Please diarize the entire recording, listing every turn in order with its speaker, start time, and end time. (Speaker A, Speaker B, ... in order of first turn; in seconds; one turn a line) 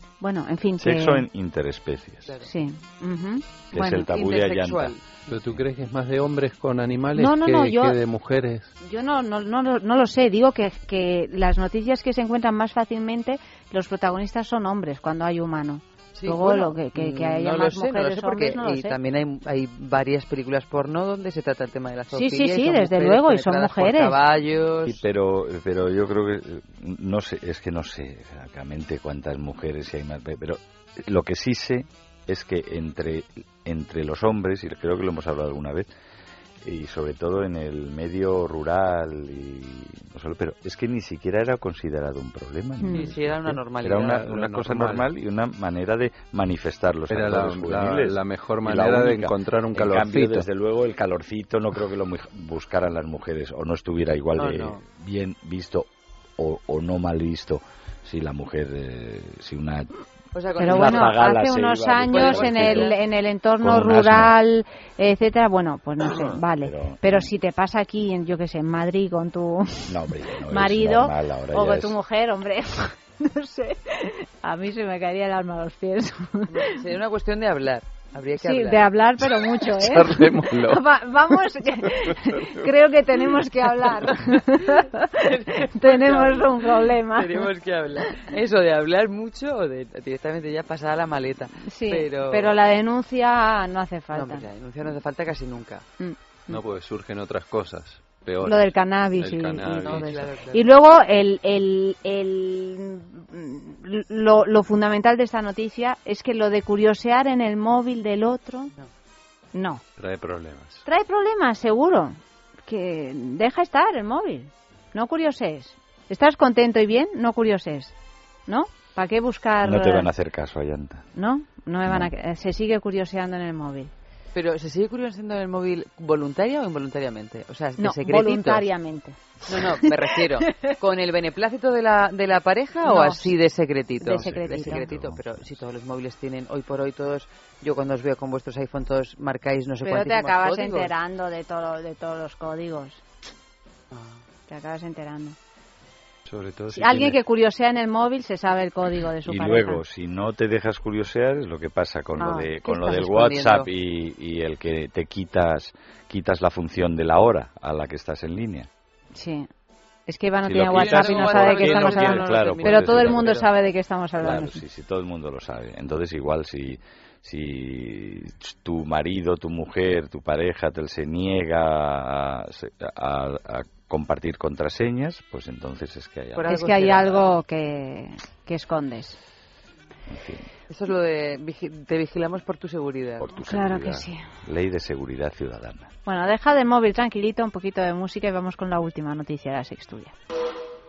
Speaker A: 0.2-1.2
Speaker B: 0.8-2.3
Speaker A: 2.4-4.1
Speaker B: 3.7-5.0
Speaker C: 4.0-5.2
Speaker D: 5.3-8.7
Speaker A: 7.2-8.0
Speaker A: 8.8-19.0
Speaker C: 16.2-25.0
Speaker A: 22.1-24.2
Speaker B: 24.9-35.9
Speaker B: 36.6-59.9
Speaker A: 42.8-43.1
Speaker C: 42.9-45.0
Speaker D: 44.2-45.0
Speaker D: 47.1-50.5
Speaker C: 54.4-54.8
Speaker C: 60.3-61.3
Speaker A: 60.6-69.9
Speaker B: 60.6-63.0
Speaker C: 62.1-63.0
Speaker B: 63.6-64.4
Speaker B: 66.5-67.3
Speaker B: 69.9-72.0
Speaker A: 70.4-76.5
Speaker C: 76.5-78.9
Speaker A: 78.4-87.5
Speaker D: 79.8-80.8
Speaker C: 85.2-92.5
Speaker A: 91.7-94.5
Speaker C: 94.1-95.9
Speaker A: 96.0-96.6
Speaker D: 96.5-100.2
Speaker A: 98.4-108.7
Speaker C: 100.0-100.7
Speaker A: 109.5-109.8
Speaker D: 110.0-110.8
Speaker A: 110.8-118.0
Speaker A: 118.5-120.1
Speaker B: 119.6-121.1
Speaker A: 121.2-123.9
Speaker C: 124.3-128.7
Speaker A: 127.8-129.4
Speaker C: 129.5-140.9
Speaker A: 130.5-130.7
Speaker A: 132.8-133.4
Speaker A: 134.0-134.9
Speaker B: 134.2-135.6
Speaker A: 139.8-143.0
Speaker C: 143.9-144.2
Speaker A: 144.5-145.4
Speaker B: 146.3-147.1
Speaker A: 146.7-149.8
Speaker B: 149.2-158.7
Speaker A: 152.2-152.5
Speaker C: 152.7-153.7
Speaker A: 159.1-159.5
Speaker A: 160.1-164.6
Speaker B: 160.5-163.5
Speaker C: 160.7-163.4
Speaker B: 164.2-176.8
Speaker C: 176.3-177.3
Speaker A: 176.5-179.2
Speaker B: 180.1-180.5
Speaker C: 180.7-183.3
Speaker B: 183.2-185.9
Speaker A: 183.4-184.2
Speaker A: 186.1-190.1